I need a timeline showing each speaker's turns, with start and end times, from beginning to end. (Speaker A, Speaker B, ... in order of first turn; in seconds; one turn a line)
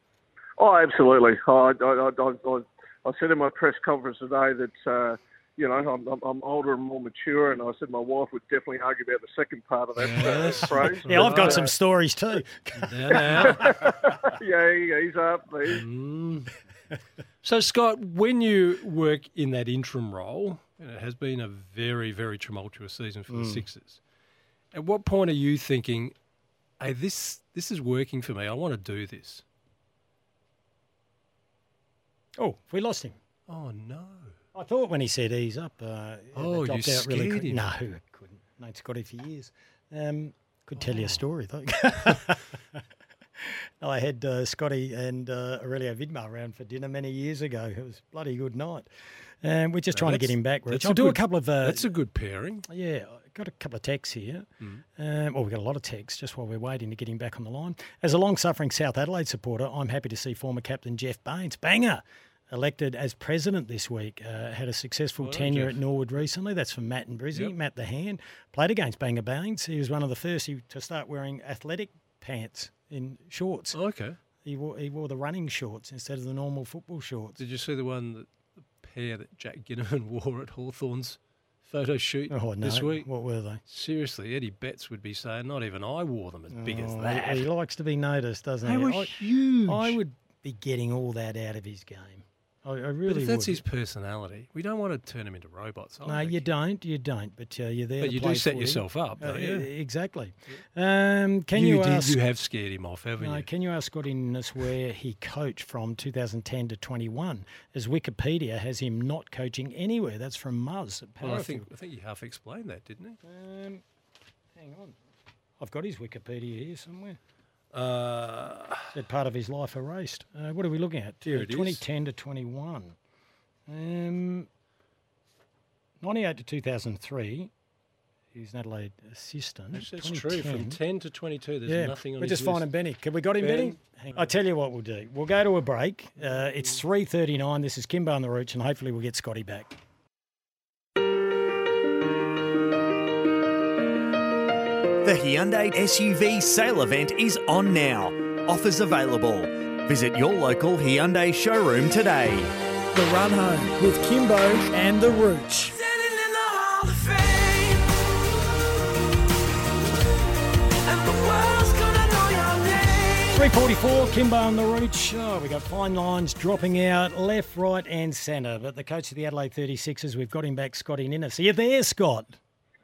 Speaker A: 0.6-11.7
Speaker B: 10.0-11.7
Speaker C: 10.2-13.6
Speaker B: 12.8-13.9
Speaker A: 13.4-15.8
Speaker B: 15.7-16.5
Speaker B: 17.4-24.0
Speaker C: 23.3-23.6
Speaker B: 24.7-26.1
Speaker B: 26.8-29.4
Speaker C: 32.4-33.2
Speaker B: 33.5-34.4
Speaker C: 34.5-42.8
Speaker B: 36.4-37.7
Speaker B: 40.8-41.2
Speaker C: 43.4-48.9
Speaker C: 49.4-51.9
Speaker B: 49.9-52.7
Speaker C: 52.7-73.8
Speaker B: 65.2-65.8
Speaker B: 73.7-74.2
Speaker C: 74.4-77.4
Speaker B: 77.4-83.1
Speaker C: 82.3-83.6
Speaker B: 83.7-87.5
Speaker C: 86.5-93.6
Speaker B: 88.6-90.0
Speaker B: 93.1-96.5
Speaker C: 96.0-102.2
Speaker B: 98.0-99.7
Speaker B: 101.5-103.5
Speaker C: 103.2-111.7
Speaker B: 111.2-113.2
Speaker C: 113.2-113.8
Speaker C: 114.6-115.0
Speaker C: 115.6-117.2
Speaker B: 117.7-118.9
Speaker C: 118.9-123.0
Speaker B: 121.2-121.8
Speaker C: 123.7-124.5
Speaker C: 126.0-127.5
Speaker C: 128.3-130.8
Speaker B: 129.7-132.7
Speaker C: 131.7-139.8
Speaker B: 133.4-134.3
Speaker B: 136.2-136.8
Speaker D: 145.0-152.5
Speaker E: 152.9-155.8
Speaker C: 163.3-172.4